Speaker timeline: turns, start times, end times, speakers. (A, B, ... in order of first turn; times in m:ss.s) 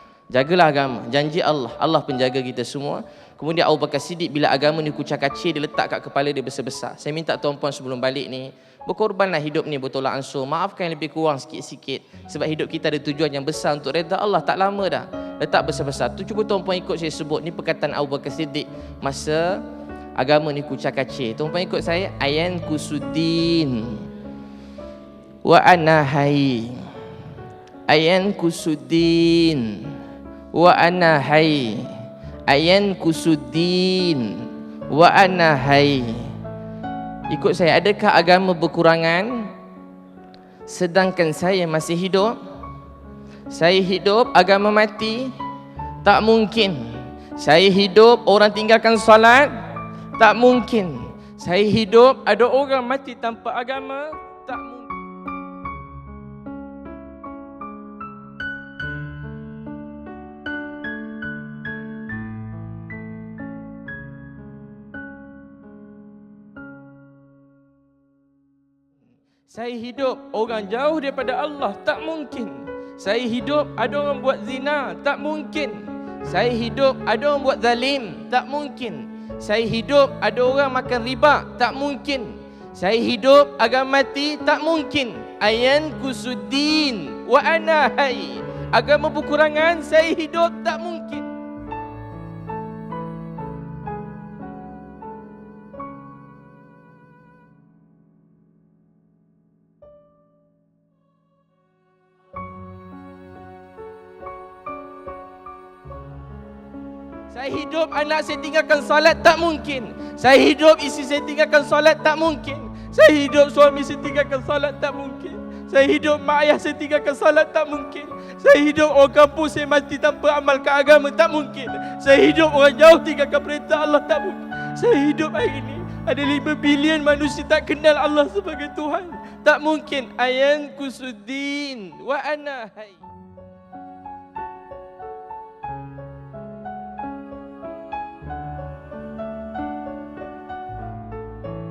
0:00.3-0:19.6 A
0:20.2-0:24.0 A
0:25.4-0:26.8 A
0:27.9-0:29.9 A
0:30.5-0:31.9 A
0:32.5-0:36.3 A
0:37.3-0:39.5 A
0:40.6-0:42.4 A
0:43.5-0:45.3 A
0:46.0-0:49.6 A
0:50.2-0:55.0 A
1:09.5-1:31.3 A
1:47.3-2:13.0 A